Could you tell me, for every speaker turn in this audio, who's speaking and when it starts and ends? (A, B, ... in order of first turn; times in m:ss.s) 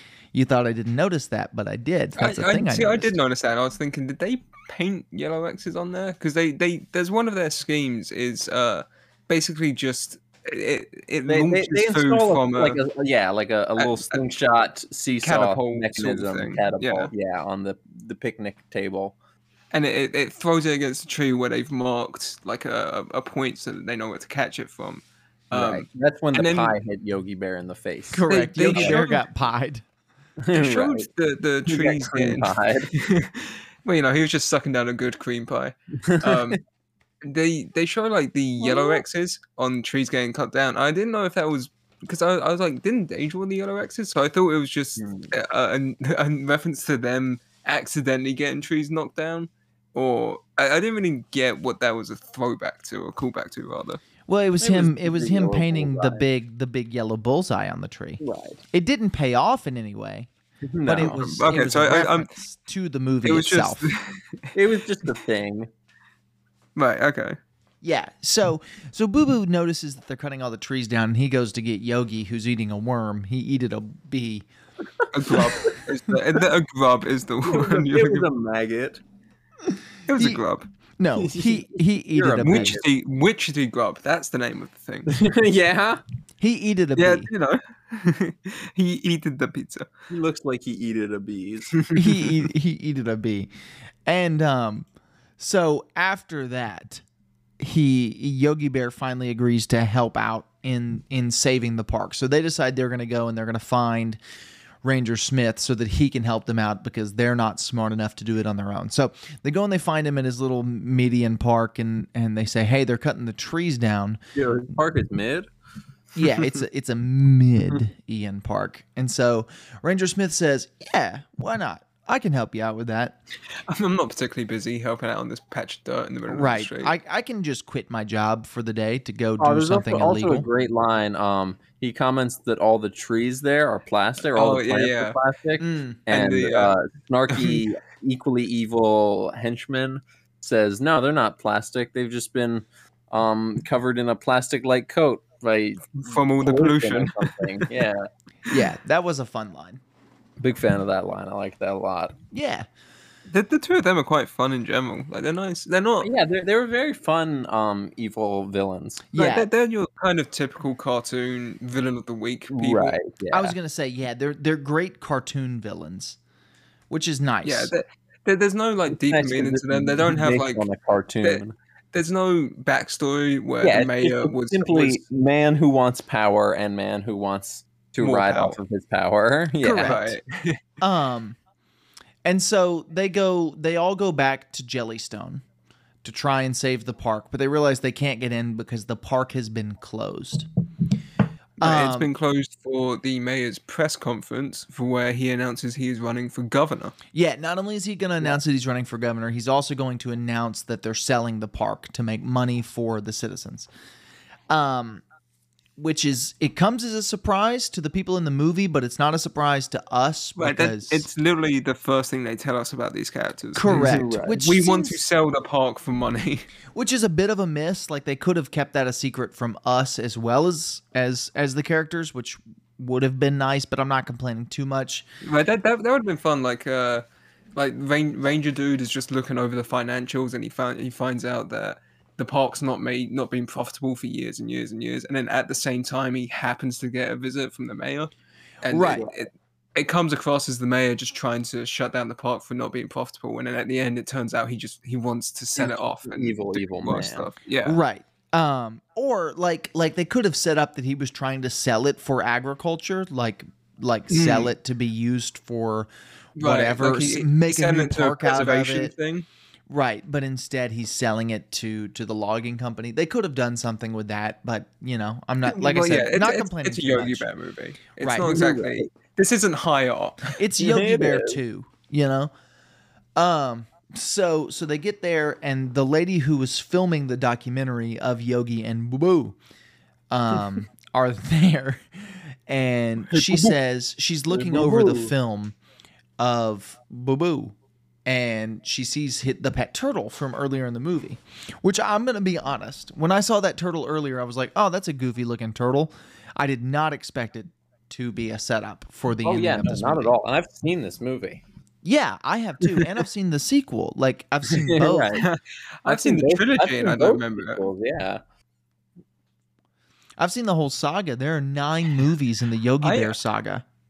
0:00.3-0:03.2 A
0:02.2-0:12.8 B
0:11.3-0:19.2 C
0:13.8-0:14.2 B
0:15.2-0:17.1 B
0:19.7-0:26.7 B
0:25.5-0:29.0 C
0:28.1-0:29.8 A
0:28.3-0:29.2 B
0:30.4-0:31.1 C
0:30.5-0:36.6 B
0:31.6-0:32.9 C
0:36.0-0:36.6 C
0:37.2-0:54.0 B
0:38.6-0:39.0 C
0:45.0-0:45.3 C
0:54.3-0:58.2 A
0:54.6-0:56.2 C
0:58.2-0:58.6 C
0:58.7-1:00.3 A
1:00.6-1:01.2 C
1:00.8-1:03.8 A
1:01.0-1:02.3 B
1:03.2-1:04.4 B
1:04.5-1:05.7 C
1:06.8-1:07.4 B
1:07.8-1:14.4 A
1:15.1-1:18.3 B
1:15.3-1:15.7 C
1:17.4-1:19.0 C
1:20.1-1:20.6 B
1:21.0-1:22.8 A
1:21.2-1:22.8 C
1:22.4-1:25.2 B
1:25.1-1:26.0 C
1:26.4-1:27.3 A
1:27.0-1:29.9 B
1:30.1-1:31.8 C
1:31.8-1:32.3 B
1:31.9-1:33.5 A
1:34.0-1:34.9 A
1:35.4-1:37.0 A
1:37.6-1:44.2 A
1:44.8-1:54.2 A
1:54.3-1:55.5 C
1:56.2-2:03.2 A
2:03.7-2:06.9 B
2:06.3-2:10.5 A
2:09.4-2:28.1 C
2:14.3-2:15.2 B
2:15.6-2:16.0 A
2:16.1-2:16.8 B
2:17.3-2:17.6 B
2:25.9-2:27.7 B
2:28.5-2:29.8 A
2:30.4-2:32.1 C
2:32.3-2:32.7 A
2:33.3-2:36.1 B
2:36.0-2:39.0 C
2:39.1-2:39.5 A
2:39.2-2:43.0 B
2:42.5-2:43.5 C
2:43.3-2:46.2 A
2:46.9-2:47.7 A
2:47.4-2:50.6 B
2:48.9-2:51.5 C
2:51.9-2:55.0 B
2:53.6-3:00.0 C
2:58.0-2:58.6 B
2:59.6-3:00.6 B
2:59.6-3:00.1 A
3:00.8-3:01.4 A
3:02.2-3:05.4 A
3:06.0-3:10.5 A
3:11.6-3:12.1 A
3:11.6-3:16.9 B
3:17.1-3:23.7 A
3:24.5-3:25.0 A
3:25.8-3:31.1 A
3:30.4-3:36.5 B
3:33.5-3:35.0 A
3:33.7-3:34.4 C
3:36.7-3:45.0 A
3:45.2-3:47.0 B
3:47.6-3:58.1 B
3:58.6-4:07.8 B
3:58.7-3:59.1 A
3:58.8-3:59.1 C
4:05.6-4:07.3 C
4:07.6-4:18.9 A
4:14.1-4:14.5 B
4:16.4-4:19.2 B
4:19.7-4:27.3 A
4:25.4-4:30.3 B
4:28.0-4:28.3 A
4:28.2-4:28.9 C
4:30.3-4:32.3 A
4:30.6-4:31.4 C
4:33.2-4:39.4 A
4:40.1-4:45.6 A
4:43.1-4:43.5 B
4:44.3-4:45.1 C
4:46.2-4:47.5 A
4:48.0-5:00.1 A
4:59.2-5:01.4 C
5:01.8-5:05.2 A
5:04.5-5:05.3 C
5:05.2-5:07.6 B
5:05.8-5:08.2 C
5:10.2-5:13.6 A
5:12.8-5:13.2 B